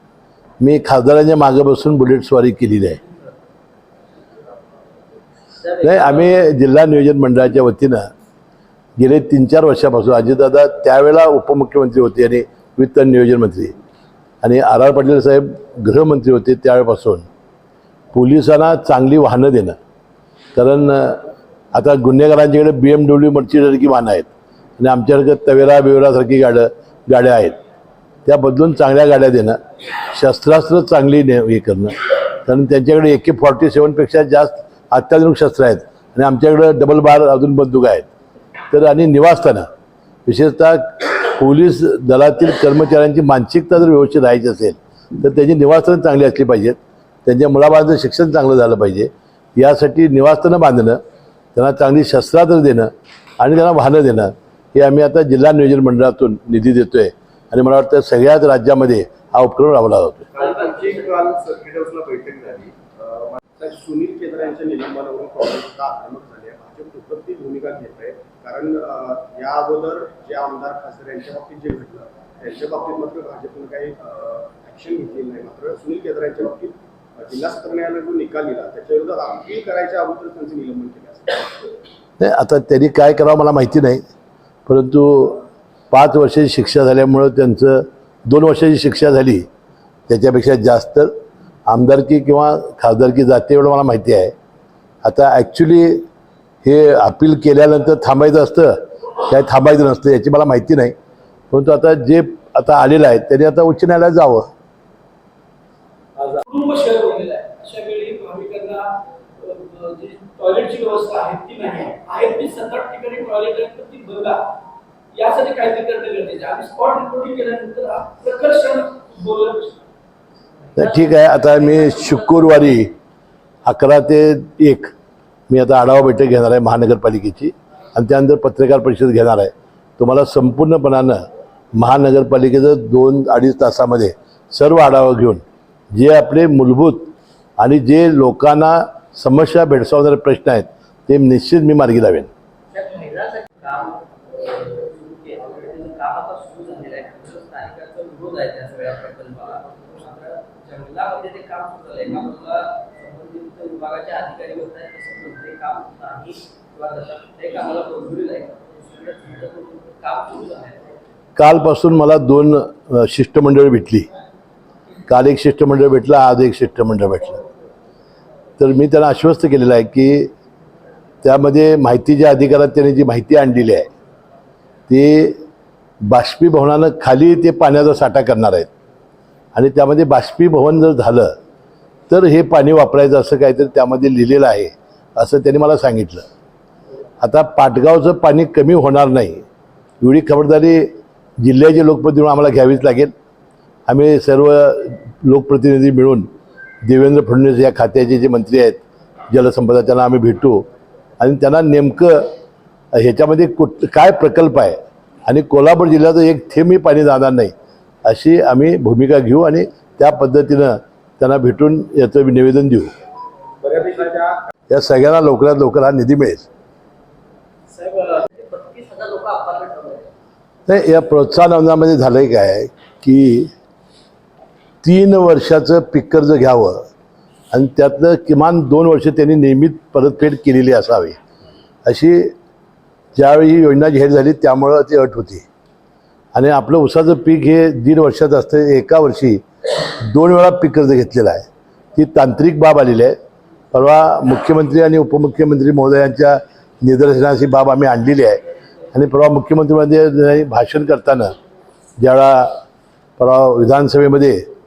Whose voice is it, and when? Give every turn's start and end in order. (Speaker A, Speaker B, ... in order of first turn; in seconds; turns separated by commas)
Speaker A: 0.6-3.0, Speaker B: 5.6-6.4, Speaker A: 5.8-8.1, Speaker A: 9.0-13.7, Speaker A: 14.4-17.3, Speaker A: 18.1-19.8, Speaker A: 20.5-21.2, Speaker A: 21.7-27.6, Speaker A: 28.2-38.1, Speaker A: 38.7-39.7, Speaker A: 40.2-51.0, Speaker A: 51.5-60.3, Speaker C: 60.3-81.7, Speaker B: 60.4-61.2, Speaker A: 82.2-84.0, Speaker A: 84.7-89.5, Speaker A: 90.1-91.1, Speaker A: 91.7-94.3, Speaker A: 95.0-96.0, Speaker A: 96.6-100.9, Speaker A: 101.5-104.5, Speaker D: 106.2-114.5, Speaker D: 115.1-119.8, Speaker A: 120.8-122.9, Speaker A: 123.6-124.9, Speaker A: 125.5-131.2, Speaker A: 131.8-142.3, Speaker B: 142.7-160.8, Speaker A: 161.3-164.1, Speaker A: 165.1-167.4, Speaker A: 168.6-170.3, Speaker A: 171.2-173.9, Speaker A: 174.9-175.4, Speaker A: 176.0-178.7, Speaker A: 179.5-181.3, Speaker A: 182.1-186.2, Speaker A: 187.2-189.4, Speaker A: 190.0-193.1, Speaker A: 193.9-196.3, Speaker A: 196.8-200.6, Speaker A: 201.2-202.3, Speaker A: 202.9-207.5, Speaker A: 208.0-212.9, Speaker C: 213.6-214.4, Speaker A: 214.7-216.5, Speaker D: 217.7-218.3, Speaker B: 218.3-220.1, Speaker A: 220.7-223.5, Speaker A: 224.8-226.8, Speaker A: 227.5-231.2, Speaker A: 231.8-232.3, Speaker A: 233.1-235.4, Speaker A: 236.3-243.2, Speaker A: 243.7-248.4, Speaker A: 248.9-251.3, Speaker A: 252.0-252.6, Speaker A: 253.2-254.4